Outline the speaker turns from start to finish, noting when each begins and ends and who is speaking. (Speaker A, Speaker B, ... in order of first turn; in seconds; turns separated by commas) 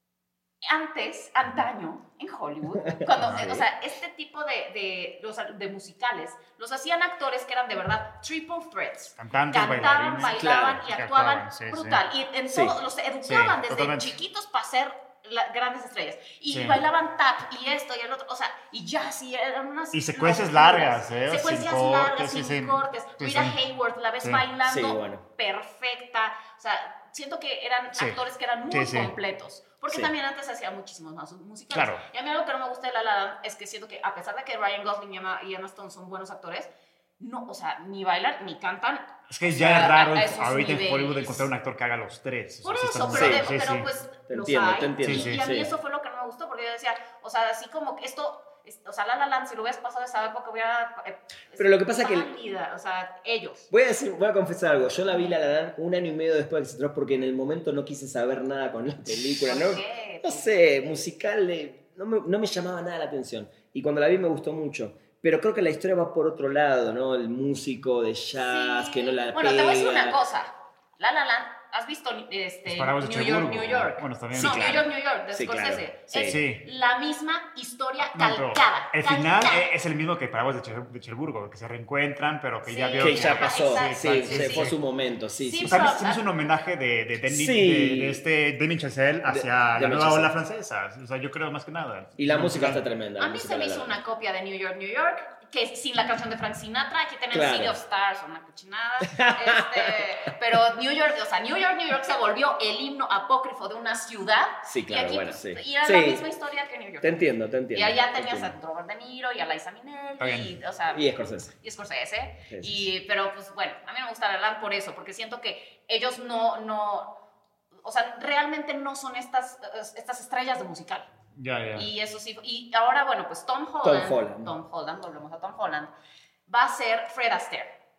Speaker A: 0.7-41.5, Speaker B: 2.7-3.7, Speaker C: 3.2-3.5, Speaker C: 9.2-12.0, Speaker B: 10.3-10.8, Speaker B: 12.5-12.8, Speaker C: 13.2-14.2, Speaker C: 16.5-16.8, Speaker C: 19.9-23.6, Speaker B: 24.6-25.2, Speaker C: 27.9-28.2, Speaker C: 28.7-29.1, Speaker C: 31.7-32.0, Speaker C: 39.3-43.9, Speaker A: 42.6-53.7, Speaker B: 43.1-43.5, Speaker B: 44.3-45.7, Speaker C: 45.0-45.4, Speaker B: 51.6-52.3, Speaker B: 53.7-70.2, Speaker A: 59.4-60.5, Speaker A: 68.3-79.7, Speaker C: 72.7-74.9, Speaker B: 74.3-76.4, Speaker C: 76.3-76.6, Speaker C: 78.2-84.8, Speaker A: 82.7-84.8, Speaker B: 83.0-85.8, Speaker A: 85.4-86.2, Speaker C: 85.6-92.8, Speaker B: 87.3-88.2, Speaker B: 89.3-90.3, Speaker B: 92.2-94.0, Speaker A: 93.2-111.1, Speaker B: 97.3-97.8, Speaker B: 99.0-100.0, Speaker B: 104.7-106.2, Speaker B: 107.0-108.5, Speaker C: 110.2-110.5, Speaker B: 110.9-111.5, Speaker A: 111.6-117.2, Speaker B: 112.5-112.9, Speaker A: 117.8-121.1, Speaker C: 121.4-121.9, Speaker A: 121.8-125.9, Speaker B: 123.8-124.5, Speaker A: 126.5-127.7